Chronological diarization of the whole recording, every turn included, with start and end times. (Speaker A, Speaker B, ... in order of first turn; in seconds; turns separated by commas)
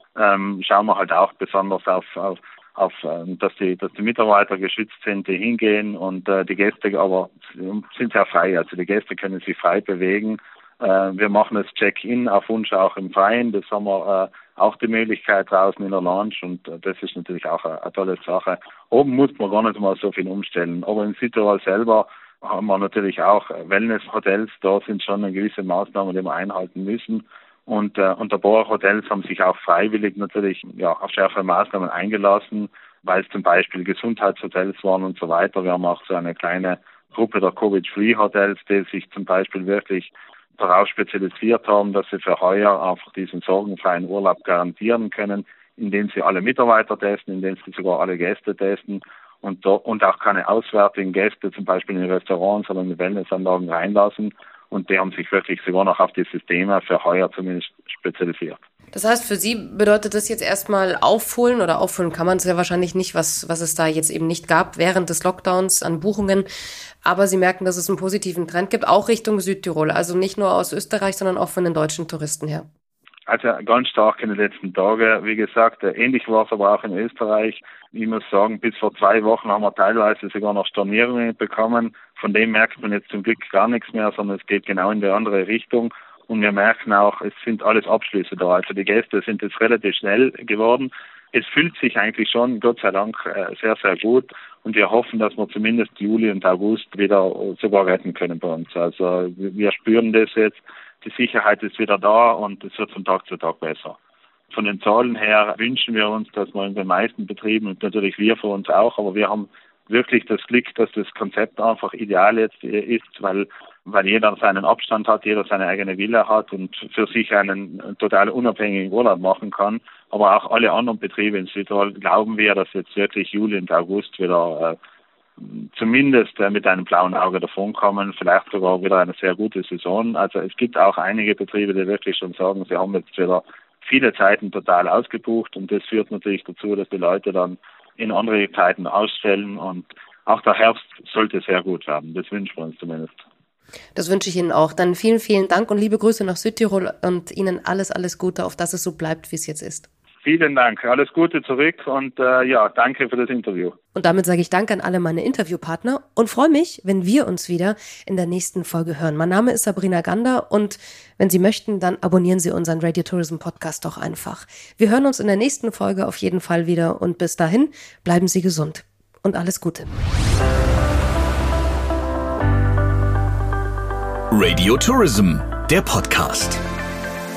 Speaker A: 0.1-58.6, Speaker B: 58.9-66.5, Speaker B: 67.0-72.7, Speaker A: 73.3-104.0, Speaker A: 104.5-124.8, Speaker A: 125.4-143.2, Speaker B: 143.9-149.9, Speaker A: 150.2-153.8, Speaker B: 153.9-169.9, Speaker C: 174.3-176.6